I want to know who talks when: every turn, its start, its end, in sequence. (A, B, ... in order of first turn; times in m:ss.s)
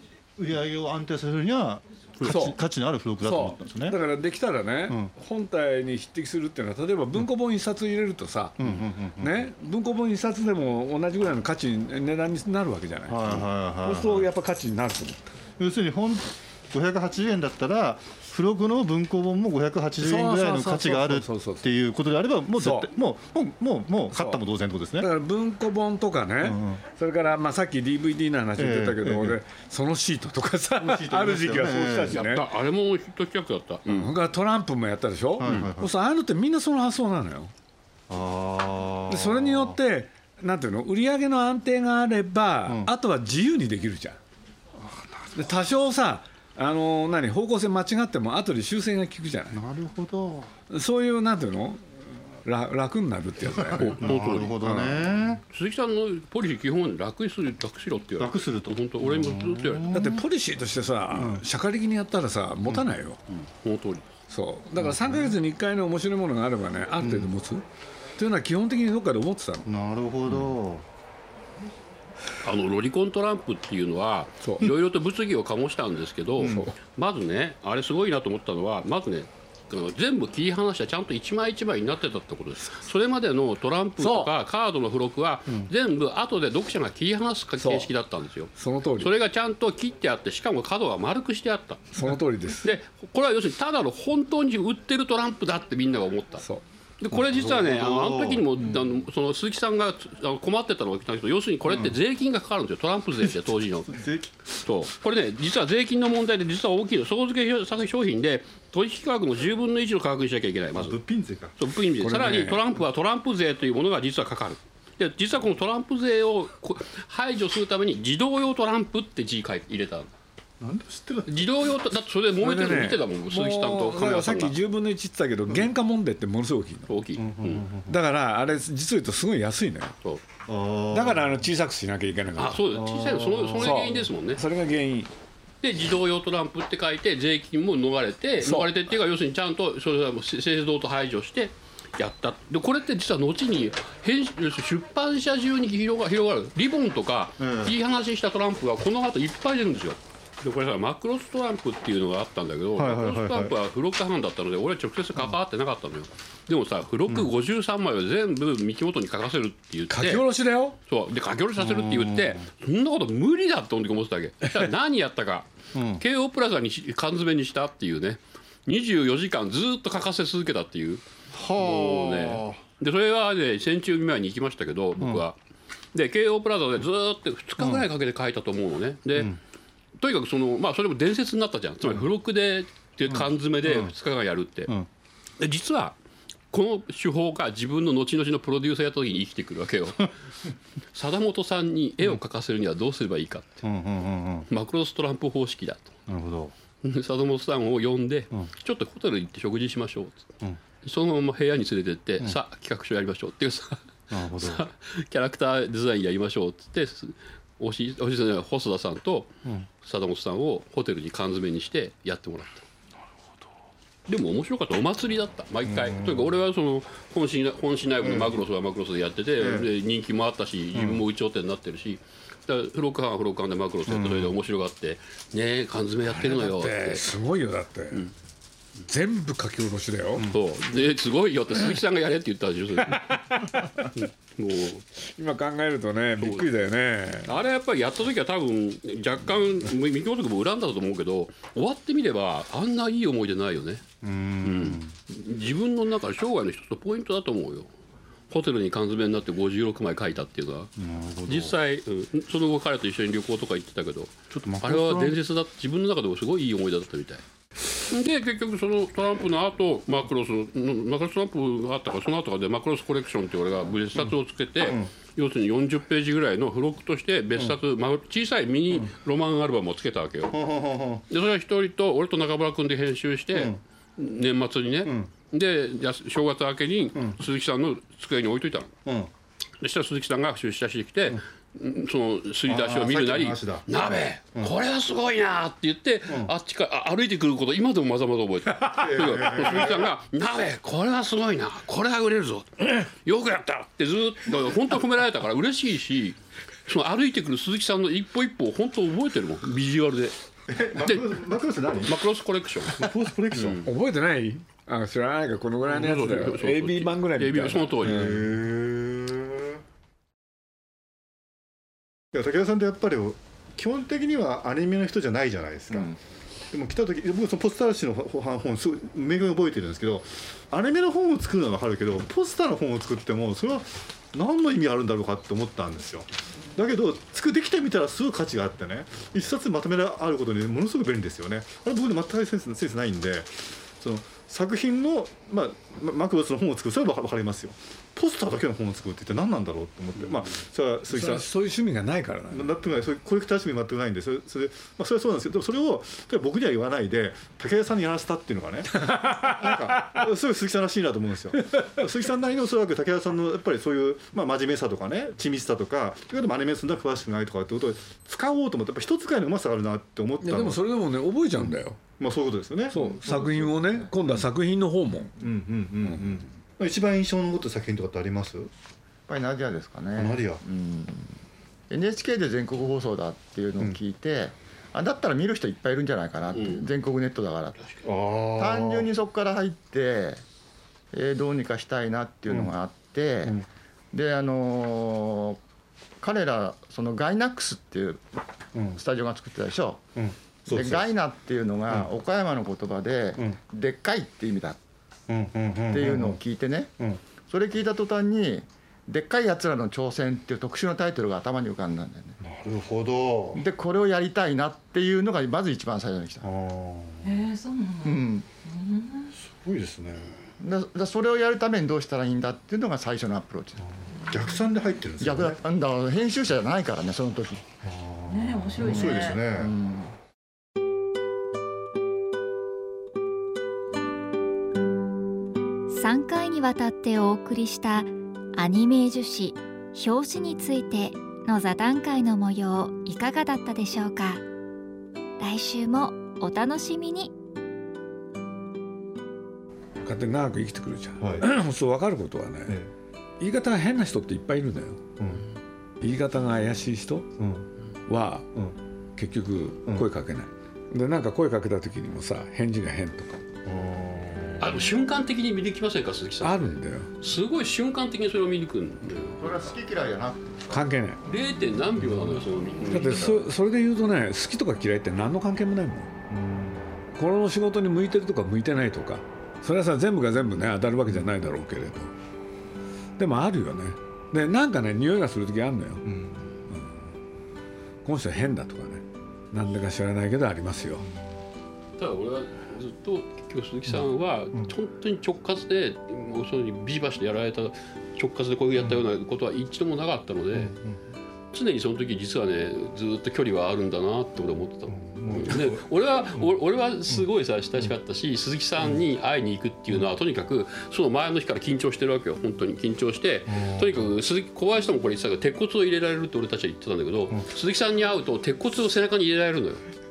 0:00.4-0:04.0 A
0:02.2-0:02.6 B
0:03.2-0:15.3 B
0:04.9-0:05.1 A
0:08.6-0:09.5 A
0:13.1-0:14.3 A
0:15.6-0:25.1 A
0:20.0-0:21.7 B
0:22.6-0:22.9 B
0:24.1-0:24.4 B
0:25.0-0:32.5 B
0:26.4-0:26.8 A
0:28.6-0:29.4 A
0:30.8-0:32.2 A
0:32.1-0:34.1 C
0:33.9-0:37.5 B
0:35.4-0:35.9 A
0:35.4-0:35.7 C
0:38.1-0:39.8 A
0:39.1-0:44.2 B
0:42.6-0:42.9 A
0:44.8-0:45.5 A
0:45.4-0:49.6 B
0:49.5-0:50.5 A
0:50.7-0:55.0 B
0:53.7-0:55.4 A
0:54.0-0:54.6 C
0:55.5-0:59.9 C
0:58.2-1:00.2 A
0:59.9-1:03.2 B
1:01.1-1:01.4 A
1:03.3-1:04.1 C
1:04.3-1:07.6 B
1:04.8-1:05.3 A
1:07.0-1:07.3 A
1:08.2-1:09.7 B
1:09.6-1:10.8 A
1:12.4-1:32.0 C
1:14.4-1:14.7 B
1:16.4-1:16.7 A
1:24.0-1:24.3 B
1:27.6-1:27.9 B
1:28.6-1:29.1 B
1:31.9-1:32.7 B
1:32.6-1:36.4 C
1:37.0-1:44.0 C
1:37.2-1:39.0 A
1:43.9-1:44.4 A
1:44.6-1:51.0 C
1:50.8-1:51.5 A
1:51.6-2:00.1 C
1:52.0-1:52.6 B
2:00.6-2:01.4 A
2:01.2-2:04.6 C
2:02.4-2:06.9 B
2:06.9-2:07.7 C
2:07.2-2:08.0 A
2:07.9-2:09.9 B
2:10.5-2:11.4 A
2:10.9-2:12.7 B
2:12.4-2:14.4 C
2:12.7-2:13.8 A
2:13.6-2:15.1 B
2:15.6-2:40.3 C
2:18.4-2:18.8 B
2:27.4-2:27.7 A
2:32.8-2:33.5 A
2:39.9-2:40.8 B
2:40.9-2:51.0 C
2:41.6-2:42.4 A
2:45.8-2:46.0 A
2:51.3-2:52.6 A
2:51.6-2:55.4 C
2:55.9-2:59.4 C
2:57.6-2:57.8 A
3:00.0-3:04.7 C
3:03.1-3:03.9 A
3:05.4-3:06.0 C
3:06.5-3:10.1 C
3:10.9-3:13.6 C
3:13.6-3:14.5 A
3:14.5-3:16.0 C
3:16.1-3:16.5 A
3:16.8-3:20.3 C
3:20.8-3:29.3 C
3:24.1-3:24.7 A
3:29.8-3:32.7 C
3:34.1-3:47.1 C
3:35.7-3:36.3 A
3:38.0-3:38.3 A
3:39.4-3:39.7 A
3:40.8-3:41.0 A
3:43.9-3:44.4 A
3:46.2-3:48.1 B
3:48.8-3:50.3 B
3:50.3-3:53.3 C
3:52.9-3:53.8 B
3:54.0-3:54.8 C
3:55.0-3:57.3 B
3:56.2-3:56.5 C
3:57.2-4:03.8 C
4:04.0-4:04.9 A
4:04.4-4:07.7 C
4:08.3-4:10.7 C
4:10.8-4:11.6 A
4:11.2-4:17.2 C
4:14.4-4:15.2 A
4:17.9-4:30.4 C
4:24.0-4:24.9 A
4:30.3-4:31.0 A
4:31.1-4:38.7 C
4:39.6-5:00.2 C
4:42.5-4:44.5 A
4:46.1-4:46.3 A
4:48.7-4:49.9 A
5:00.5-5:02.0 A
5:00.7-5:01.3 C
5:01.8-5:03.6 C
5:02.7-5:03.7 A
5:03.5-5:08.2 B
5:05.7-5:08.2 C
5:07.8-5:09.6 A
5:12.1-5:16.0 A
5:16.5-5:41.3 A
5:40.9-5:42.6 B
5:42.3-6:00.7 A
5:48.8-5:49.2 B
6:00.2-6:01.8 B
6:01.4-6:03.5 A
6:02.7-6:05.1 B
6:02.8-6:03.6 D
6:05.2-6:08.5 A
6:09.1-6:11.2 D
6:10.0-6:10.4 A
6:11.7-6:17.6 D
6:16.3-6:16.7 C
6:17.8-6:18.9 A
6:18.4-6:20.2 D
6:20.9-6:25.4 D
6:26.0-6:28.0 D
6:28.5-6:28.8 A
6:28.8-6:29.8 D
6:30.0-6:30.8 A
6:30.5-6:34.6 D
6:35.1-6:36.2 A
6:35.7-6:36.7 D
6:37.3-6:42.2 D
6:42.2-6:43.4 A
6:43.3-6:46.2 D
6:46.2-6:47.1 A
6:47.0-6:49.2 E
6:47.8-6:48.3 D
6:49.2-6:50.2 A
6:50.4-6:53.6 D
6:53.9-6:55.4 A
6:55.0-6:57.5 D
6:57.6-6:59.5 A
6:58.1-6:59.2 E
6:58.6-7:00.0 D
7:05.7-7:14.2 F
7:15.2-7:17.1 F
7:19.8-7:22.6 B
7:21.0-7:21.3 A
7:23.2-7:24.8 B
7:25.0-7:25.2 A
7:25.8-7:27.1 B
7:27.2-7:27.5 A
7:27.9-7:28.3 B
7:29.0-7:33.2 B
7:33.4-7:34.6 A
7:34.4-7:39.5 C
7:36.2-7:36.9 B
7:39.2-7:40.6 D
7:40.5-7:41.0 B
7:41.0-7:43.2 C
7:41.9-7:42.2 A
7:42.7-7:45.9 B
7:46.1-7:46.8 A
7:47.0-7:51.9 B
7:53.0-7:55.8 B
7:55.8-7:56.4 A
7:56.5-7:56.8 B
7:57.8-8:00.8 B
8:01.8-8:10.5 C
8:10.3-8:10.8 A
8:11.3-8:29.6 C
8:14.7-8:16.3 A
8:23.3-8:23.8 A